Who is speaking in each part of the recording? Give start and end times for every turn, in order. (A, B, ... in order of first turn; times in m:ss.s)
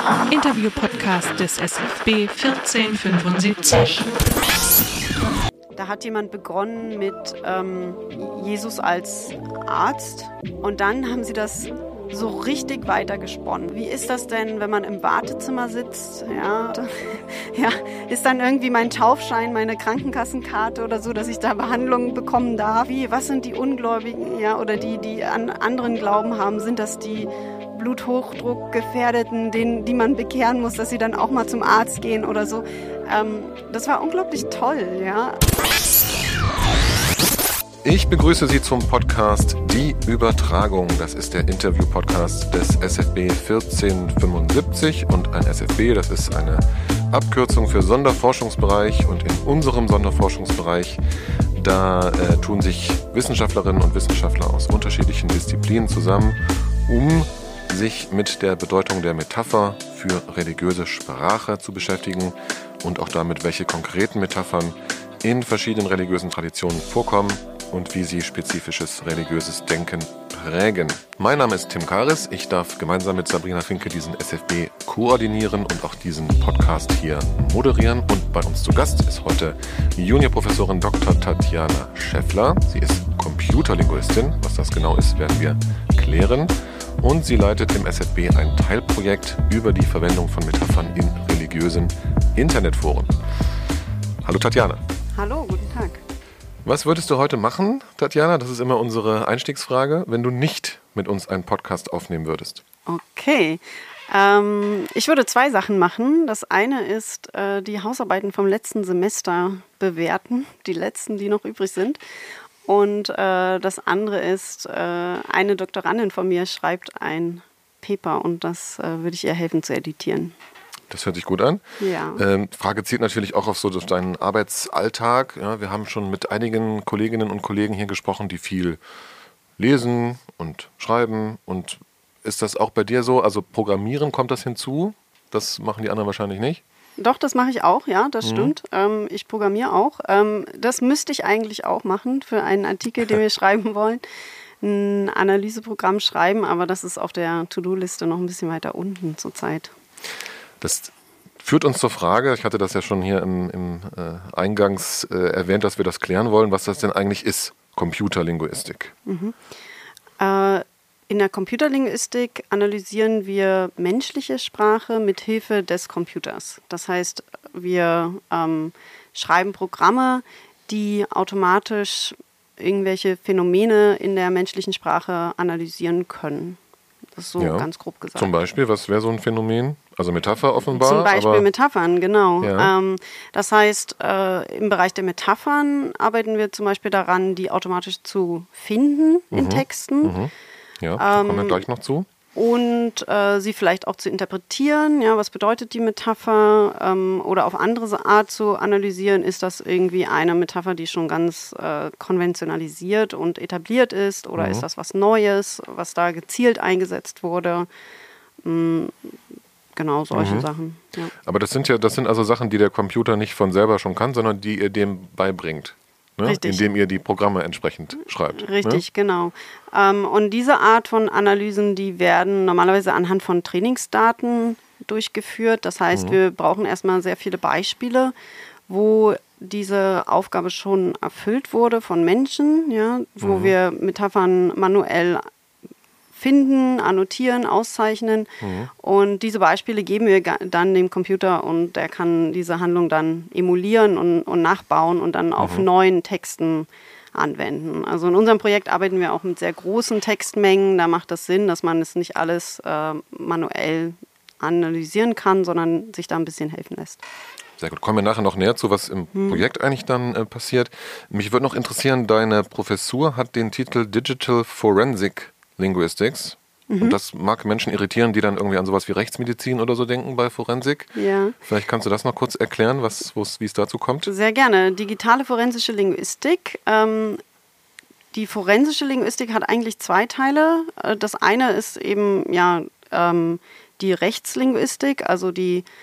0:00.3-0:04.3 A
0:05.8-0:35.4 B
0:37.8-0:51.0 C
0:51.5-1:33.2 C
1:34.2-1:34.8 C
1:35.2-1:36.0 B
1:36.6-1:42.6 C
1:42.9-1:52.0 B
1:52.6-2:00.4 B
2:00.9-2:01.6 C
2:01.8-2:02.2 B
2:02.2-2:08.8 C
2:09.6-2:16.6 C
2:17.0-2:24.0 B
2:18.2-2:18.5 C
2:24.6-2:29.7 B
2:30.6-2:38.9 C
2:39.1-2:39.4 B
2:40.2-2:56.6 B
2:57.2-2:58.3 B
2:57.4-3:01.5 C
3:00.7-3:10.1 B
3:02.4-3:02.7 C
3:09.3-3:12.1 C
3:11.0-3:11.6 B
3:12.4-3:27.7 B
3:24.4-3:24.6 C
3:28.4-3:29.2 B
3:29.8-3:31.1 B
3:30.1-3:30.5 C
3:31.2-3:38.8 C
3:36.2-3:36.7 B
3:38.3-3:48.1 B
3:45.9-3:46.2 C
3:48.7-3:55.3 B
3:53.2-3:53.5 C
3:56.1-4:17.0 B
3:58.4-3:58.7 C
4:05.4-4:05.7 C
4:17.6-4:34.1 C
4:19.2-4:19.4 B
4:26.7-4:27.0 B
4:31.0-4:31.4 B
4:34.1-4:37.2 B
4:38.1-4:45.7 B